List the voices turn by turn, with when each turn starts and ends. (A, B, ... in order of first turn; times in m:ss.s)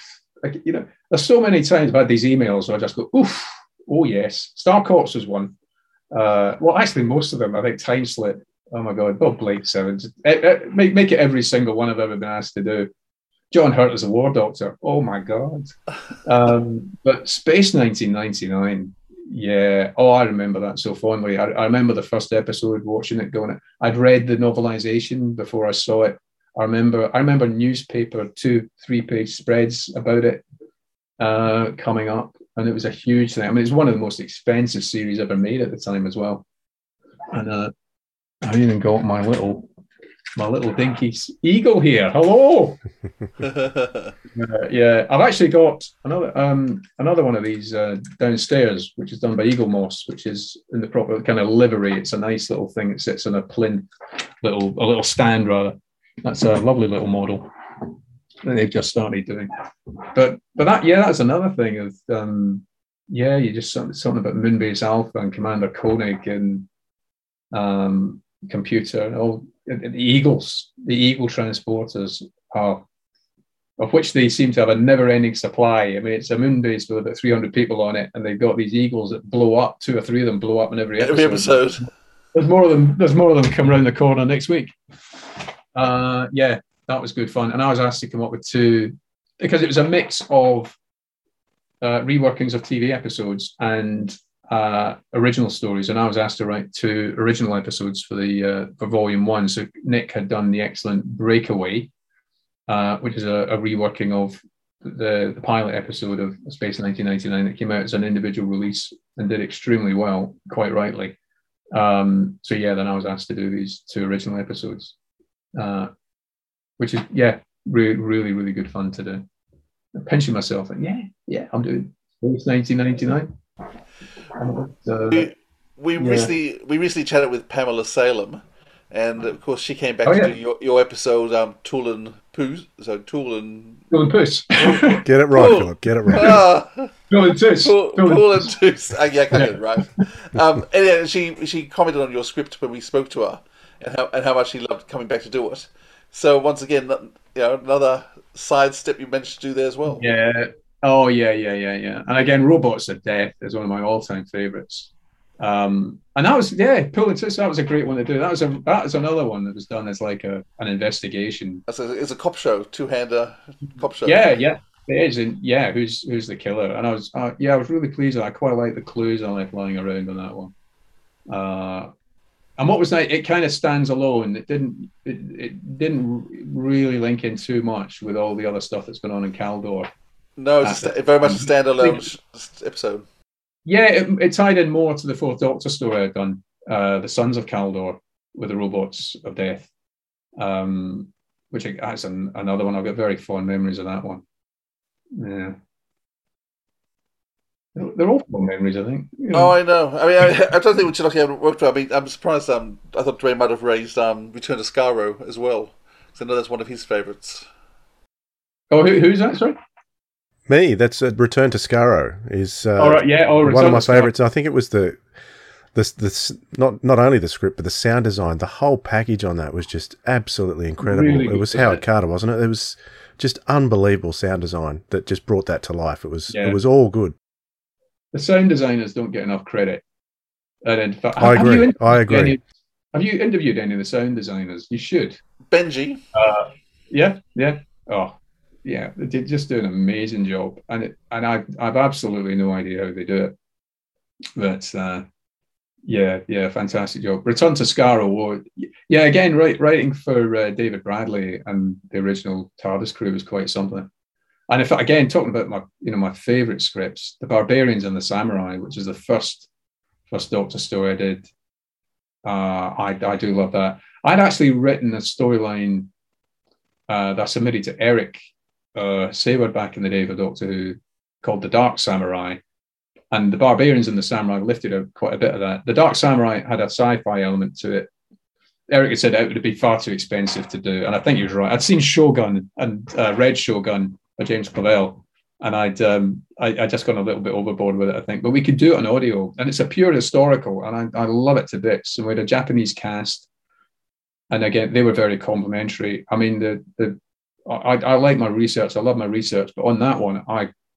0:00.4-0:05.5 A
0:06.1-0:12.9 A
0:13.5-0:15.7 A
0:16.2-0:30.4 A
0:31.2-0:36.4 A
0:37.3-0:37.7 A
0:38.4-0:39.7 A
0:40.4-0:42.8 A
0:43.4-0:44.1 B
0:44.3-0:53.9 A
0:54.4-0:57.5 A
0:58.4-0:59.5 A
1:00.1-1:06.7 A
1:07.5-1:12.8 A
1:13.8-1:21.6 A
1:21.0-1:21.9 B
1:22.3-1:24.8 A
1:25.8-1:30.8 A
1:31.8-1:41.9 A
1:42.7-1:51.2 A
1:51.7-1:54.9 A
1:55.6-1:55.9 A
1:56.8-1:59.2 A
2:00.0-2:03.3 A
2:04.4-2:05.3 A
2:05.1-2:13.9 B
2:06.0-2:06.3 A
2:10.0-2:10.3 A
2:13.9-2:15.0 A
2:15.0-2:16.4 C
2:15.3-2:17.0 B
2:17.1-2:18.5 A
2:17.5-2:30.0 B
2:19.3-2:19.8 A
2:29.9-2:41.6 A
2:41.7-2:44.2 B
2:44.0-2:50.5 A
2:51.3-2:51.9 A
2:52.6-2:59.9 A
3:00.4-3:03.0 B
3:00.6-3:02.0 A
3:03.7-3:09.7 A
3:10.4-3:14.2 A
3:15.2-3:15.6 A
3:17.8-3:19.6 A
3:19.3-3:27.5 B
3:28.7-3:29.6 A
3:30.5-3:35.0 C
3:32.8-3:34.1 A
3:35.8-3:47.2 C
3:40.8-3:41.8 A
3:46.3-3:46.6 A
3:48.1-3:49.8 A
3:50.6-3:52.4 A
3:51.2-3:52.4 C
3:52.9-3:55.2 A
3:55.5-3:56.0 B
3:56.1-4:03.4 A
4:04.4-4:05.0 A
4:05.9-4:13.9 A
4:14.5-4:19.5 A
4:20.1-4:21.3 A
4:22.2-4:25.9 A
4:26.9-4:28.2 A
4:28.8-4:32.4 A
4:33.1-4:37.9 A
4:38.7-4:53.3 A
4:54.3-5:00.5 A